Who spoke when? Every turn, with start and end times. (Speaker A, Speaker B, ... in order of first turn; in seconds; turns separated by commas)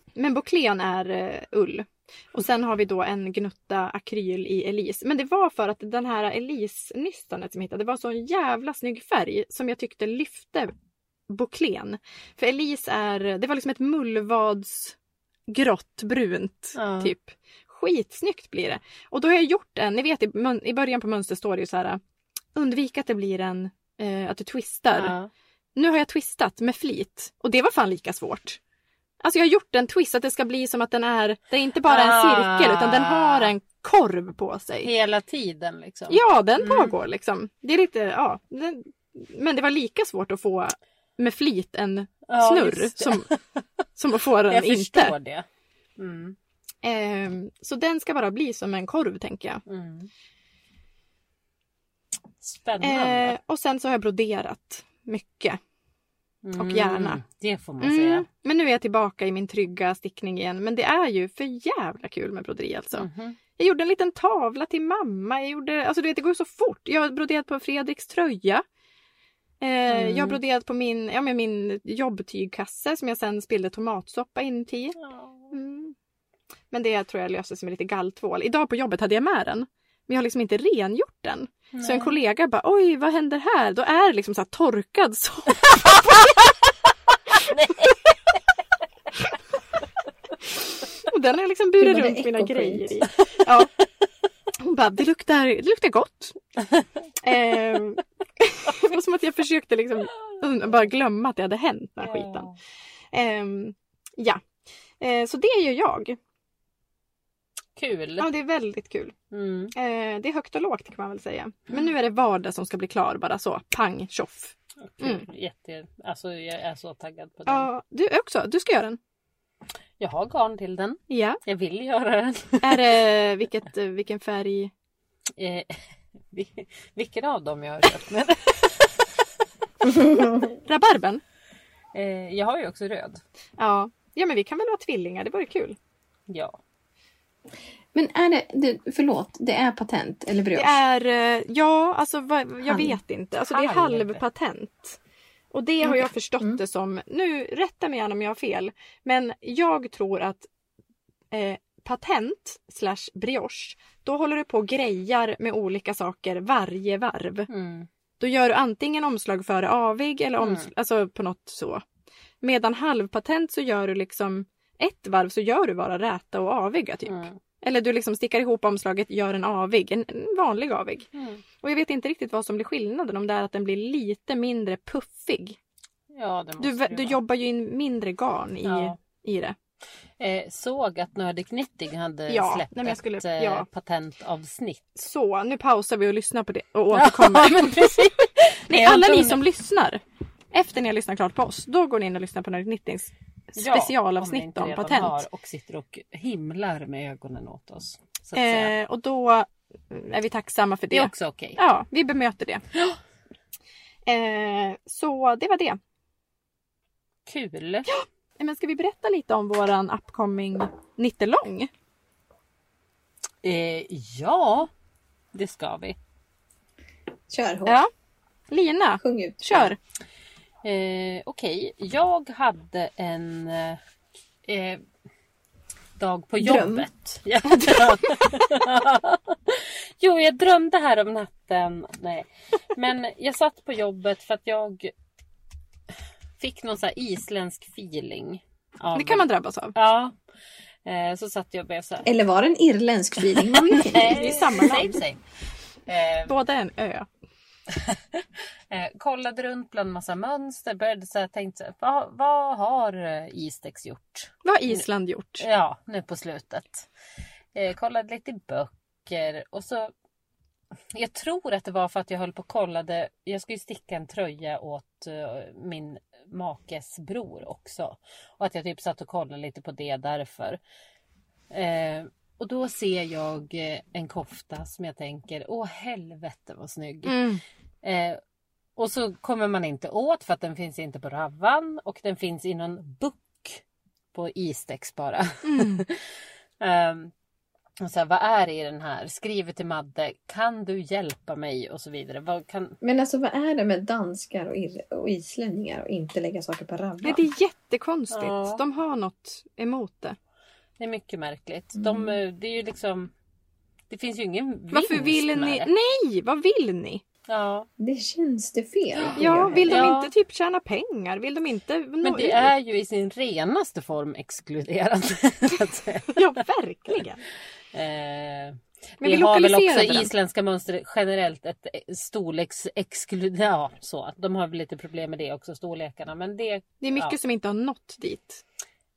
Speaker A: 0.1-10.7, Speaker A: 11.3-14.9, Speaker A: 15.5-22.0, Speaker B: 16.8-17.1, Speaker A: 22.5-25.1, Speaker B: 24.9-25.3, Speaker A: 25.8-28.6, Speaker A: 29.2-34.9, Speaker B: 31.9-33.5, Speaker B: 34.8-36.9, Speaker A: 36.1-43.3, Speaker B: 42.3-43.6, Speaker A: 44.0-45.1, Speaker B: 44.5-45.5, Speaker B: 46.0-46.4, Speaker A: 46.8-49.6, Speaker B: 49.6-50.1, Speaker B: 52.4-53.3, Speaker A: 52.8-55.6, Speaker B: 56.4-58.2, Speaker A: 56.6-57.2, Speaker A: 57.8-68.6, Speaker B: 62.9-63.4, Speaker A: 69.6-75.0, Speaker B: 69.9-70.4, Speaker B: 75.0-75.5, Speaker A: 75.5-75.9, Speaker A: 76.7-85.6, Speaker B: 81.7-82.2, Speaker B: 87.5-87.9, Speaker A: 91.0-93.7, Speaker C: 91.8-93.0, Speaker A: 94.6-96.4, Speaker A: 97.2-102.5, Speaker B: 102.0-102.5, Speaker A: 103.1-104.4, Speaker A: 105.0-106.2, Speaker B: 107.8-108.3, Speaker A: 108.2-109.1, Speaker B: 109.3-109.7, Speaker A: 109.7-115.2, Speaker B: 114.8-117.7, Speaker A: 117.5-119.0, Speaker B: 120.0-122.9, Speaker A: 121.1-121.4, Speaker A: 122.6-124.7, Speaker B: 125.4-125.8, Speaker B: 126.3-129.0, Speaker C: 129.9-130.4, Speaker A: 130.6-131.2, Speaker B: 131.9-133.2, Speaker A: 133.6-135.8, Speaker B: 136.3-136.6, Speaker C: 137.9-140.8, Speaker A: 140.5-145.0, Speaker C: 142.7-143.0, Speaker B: 143.5-144.2, Speaker A: 145.5-150.5, Speaker A: 151.3-157.5, Speaker B: 157.5-157.9, Speaker A: 158.2-161.8, Speaker B: 160.4-160.7, Speaker A: 162.4-171.1, Speaker B: 167.1-167.3, Speaker B: 171.1-171.4, Speaker A: 171.6-175.6, Speaker B: 176.1-177.2, Speaker A: 176.6-179.6, Speaker B: 178.6-178.9, Speaker B: 180.2-184.9, Speaker A: 182.3-183.7, Speaker A: 184.9-188.1, Speaker B: 186.9-189.4, Speaker A: 188.7-190.0, Speaker A: 190.5-195.2, Speaker B: 193.6-198.7, Speaker A: 198.3-202.6, Speaker B: 200.9-201.6, Speaker A: 204.1-205.8, Speaker B: 207.2-207.9, Speaker A: 207.8-211.7, Speaker B: 213.4-214.7, Speaker B: 215.3-216.0, Speaker C: 217.3-217.8, Speaker A: 218.5-219.8, Speaker C: 219.0-219.7, Speaker B: 220.6-223.8, Speaker B: 224.4-224.8, Speaker B: 226.0-234.9, Speaker C: 226.4-226.9, Speaker B: 236.4-240.1, Speaker A: 238.9-239.7, Speaker B: 240.8-242.1, Speaker C: 242.0-244.3, Speaker B: 243.7-245.2, Speaker A: 243.7-245.0, Speaker B: 245.8-246.3, Speaker A: 246.3-247.1, Speaker B: 247.8-254.8, Speaker A: 254.4-255.4, Speaker B: 255.4-256.9, Speaker B: 257.5-259.9, Speaker B: 260.9-270.6, Speaker B: 271.5-277.3, Speaker A: 277.0-277.4, Speaker B: 277.8-278.2, Speaker B: 278.8-283.6, Speaker B: 284.1-286.0, Speaker A: 285.4-285.8, Speaker B: 286.6-287.1, Speaker B: 287.8-292.8, Speaker C: 292.8-297.2, Speaker A: 297.0-300.1, Speaker B: 298.1-298.6, Speaker B: 300.8-303.1, Speaker C: 301.8-302.2, Speaker B: 303.9-305.7, Speaker A: 304.7-307.0, Speaker B: 307.3-307.7, Speaker C: 307.8-309.9, Speaker B: 309.0-310.1, Speaker A: 309.2-312.5, Speaker B: 312.0-316.3, Speaker A: 316.1-317.2, Speaker B: 317.7-327.1, Speaker A: 319.0-320.1, Speaker A: 326.8-328.4